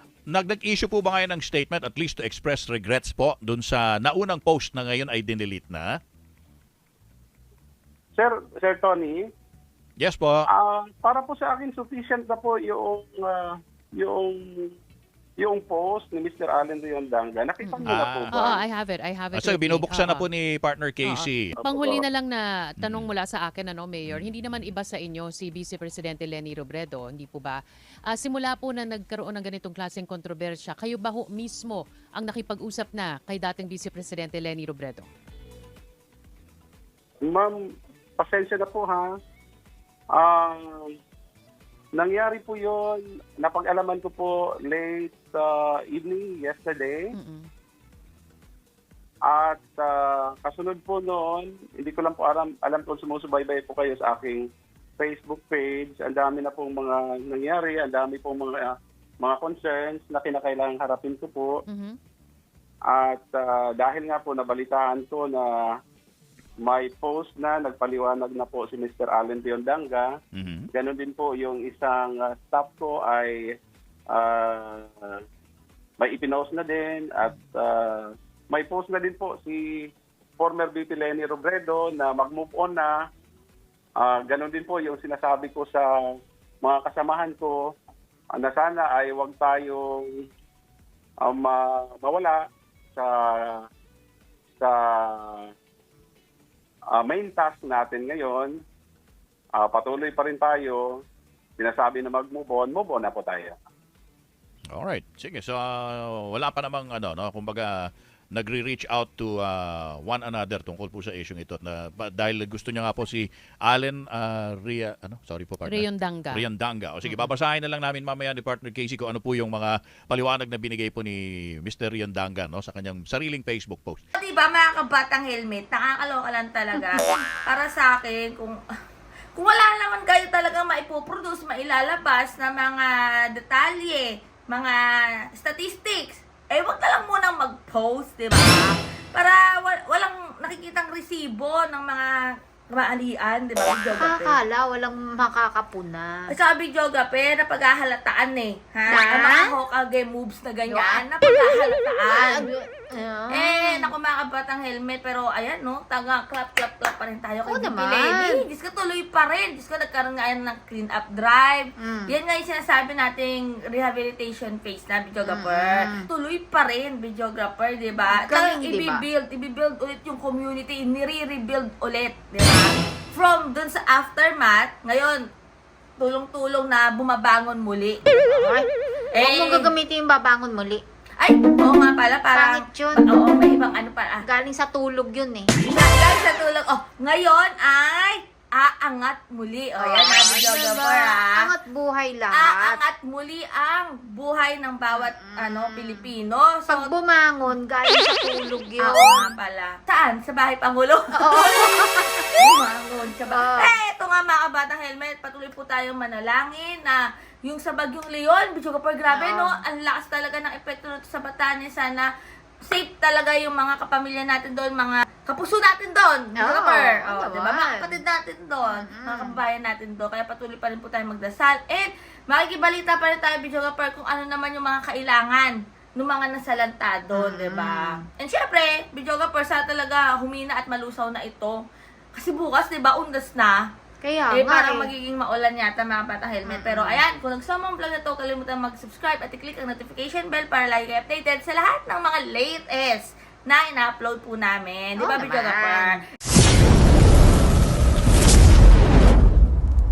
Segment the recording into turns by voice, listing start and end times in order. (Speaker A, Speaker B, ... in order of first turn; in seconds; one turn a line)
Speaker A: 0.3-5.8
Speaker B: 8.2-9.2
Speaker A: 10.0-10.5
Speaker B: 10.5-14.7
Speaker B: 15.4-18.6
Speaker C: 17.6-20.3
Speaker A: 17.8-18.4
Speaker A: 19.3-21.6
Speaker C: 21.0-27.6
Speaker B: 21.6-22.0
Speaker A: 22.8-23.1
Speaker A: 24.1-24.4
Speaker C: 28.1-35.1
Speaker B: 37.2-37.6
Speaker B: 38.2-39.1
Speaker B: 40.1-40.9
Speaker B: 42.0-47.0
Speaker C: 47.1-47.5
Speaker B: 49.3-54.5
Speaker B: 55.0-61.5
Speaker C: 61.7-62.0
Speaker B: 62.9-65.7
Speaker B: 66.7-70.1
Speaker A: 70.3-70.7
Speaker B: 70.7-73.4
Speaker B: 74.1-75.2
Speaker B: 76.0-79.9
Speaker B: 80.4-83.0
Speaker B: 84.0-85.9
Speaker B: 86.6-87.6
Speaker B: 88.3-90.2
Speaker B: 91.3-92.4
Speaker B: 93.0-93.7
Speaker B: 94.6-95.5
Speaker B: 97.0-98.6
Speaker B: 99.6-101.0
Speaker B: 101.6-103.5
Speaker A: 104.7-124.0
Speaker C: 115.7-116.4
Speaker C: 117.0-117.3
Speaker D: 124.2-128.6
Speaker D: 129.4-134.8
Speaker D: 135.4-142.1
Speaker D: 142.7-144.4
Speaker E: 143.9-146.3
Speaker D: 146.3-152.5
Speaker E: 148.9-149.5
Speaker E: 150.7-151.1
Speaker E: 152.1-153.9
Speaker D: 153.3-175.2
Speaker E: 157.5-158.4
Speaker E: 161.8-162.1
Speaker E: 165.2-166.1
Speaker E: 168.1-169.1
Speaker D: 176.0-178.1
Speaker E: 178.1-178.7
Speaker D: 179.2-179.7
Speaker E: 179.2-180.8
Speaker D: 181.2-184.2
Speaker E: 182.3-183.1
Speaker E: 184.2-185.5
Speaker D: 185.6-191.4
Speaker E: 189.8-192.8
Speaker D: 192.3-196.9
Speaker E: 194.9-196.1
Speaker E: 196.7-199.3
Speaker D: 198.8-212.1
Speaker E: 201.2-202.3
Speaker E: 203.3-203.7
Speaker E: 209.1-209.6
Speaker D: 212.7-231.6
Speaker E: 216.4-218.0
Speaker E: 218.7-219.4
Speaker E: 227.1-228.0
Speaker D: 232.2-233.6
Speaker E: 234.0-234.9
Speaker D: 234.3-246.0
Speaker E: 236.5-237.0
Speaker E: 245.0-246.0